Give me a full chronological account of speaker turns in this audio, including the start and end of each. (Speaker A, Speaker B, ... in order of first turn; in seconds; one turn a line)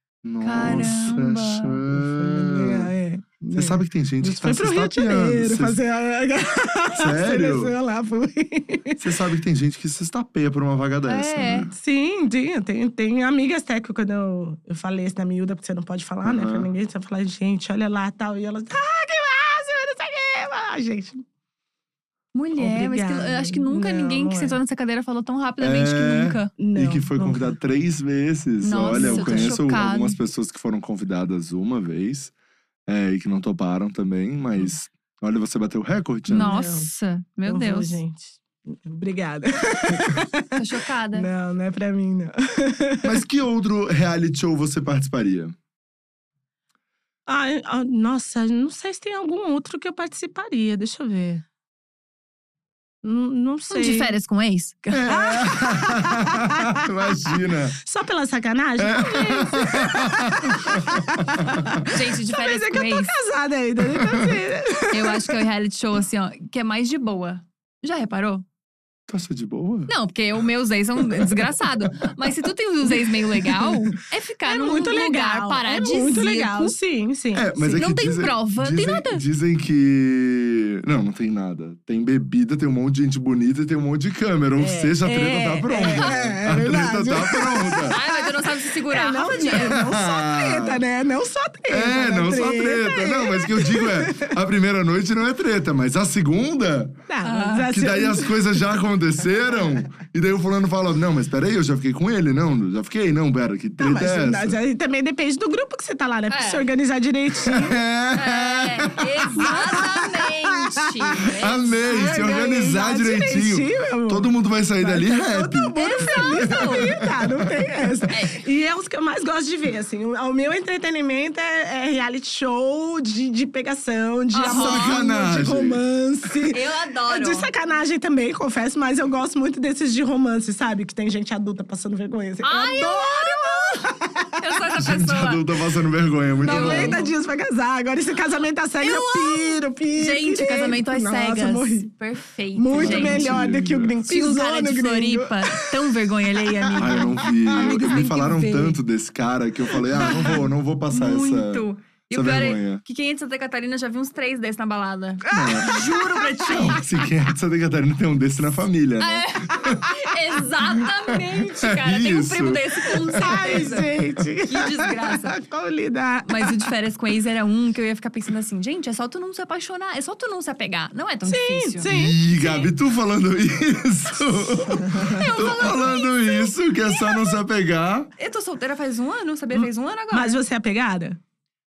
Speaker A: 0.2-2.9
Speaker B: 0.4-1.8
Speaker C: 1.9-9.2
Speaker A: 3.5-5.8
Speaker A: 6.9-7.7
Speaker A: 9.0-11.7
Speaker B: 11.1-11.7
Speaker C: 11.7-21.2
Speaker A: 16.2-16.7
Speaker B: 22.3-26.5
Speaker C: 22.6-24.6
Speaker A: 25.6-32.3
Speaker C: 26.6-27.5
Speaker B: 28.6-30.2
Speaker C: 28.9-29.5
Speaker A: 32.9-36.5
Speaker B: 36.3-38.0
Speaker C: 36.3-36.9
Speaker C: 37.5-40.6
Speaker B: 40.5-41.3
Speaker C: 41.1-43.2
Speaker A: 43.0-45.5
Speaker C: 47.3-51.4
Speaker C: 53.0-54.1
Speaker B: 53.7-55.1
Speaker A: 54.9-57.8
Speaker C: 55.1-65.4
Speaker A: 58.8-61.9
Speaker B: 61.9-63.1
Speaker B: 64.9-68.4
Speaker A: 69.1-69.9
Speaker B: 69.9-76.7
Speaker A: 71.0-72.1
Speaker C: 74.4-77.9
Speaker A: 77.3-88.0
Speaker B: 77.7-79.2
Speaker C: 84.6-94.3
Speaker B: 85.8-86.2
Speaker B: 87.9-89.8
Speaker A: 89.4-90.8
Speaker A: 91.7-97.0
Speaker C: 97.1-98.6
Speaker B: 97.2-97.7
Speaker A: 97.7-104.6
Speaker C: 103.8-107.8
Speaker B: 106.3-106.7
Speaker A: 107.4-109.8
Speaker B: 108.1-112.4
Speaker C: 109.5-110.1
Speaker A: 111.3-118.1
Speaker C: 111.8-134.4
Speaker B: 115.8-116.9
Speaker B: 118.1-118.4
Speaker B: 124.3-125.0
Speaker A: 124.5-125.8
Speaker B: 126.5-127.5
Speaker B: 132.4-135.5
Speaker A: 134.8-137.0
Speaker C: 136.4-141.9
Speaker B: 136.4-137.1
Speaker B: 138.8-143.4
Speaker C: 142.6-145.8
Speaker A: 142.8-144.0
Speaker B: 144.1-148.8
Speaker C: 146.3-147.8
Speaker A: 146.8-152.8
Speaker C: 150.0-150.4
Speaker B: 150.9-156.8
Speaker C: 155.3-157.1
Speaker A: 155.3-155.8
Speaker A: 156.5-159.9
Speaker B: 159.0-163.9
Speaker A: 160.8-164.2
Speaker C: 163.2-166.7
Speaker B: 164.4-165.3
Speaker B: 166.2-172.7
Speaker C: 171.2-172.2
Speaker A: 171.8-178.1
Speaker C: 174.8-175.8
Speaker B: 175.0-177.3
Speaker B: 178.2-180.4
Speaker C: 179.5-181.2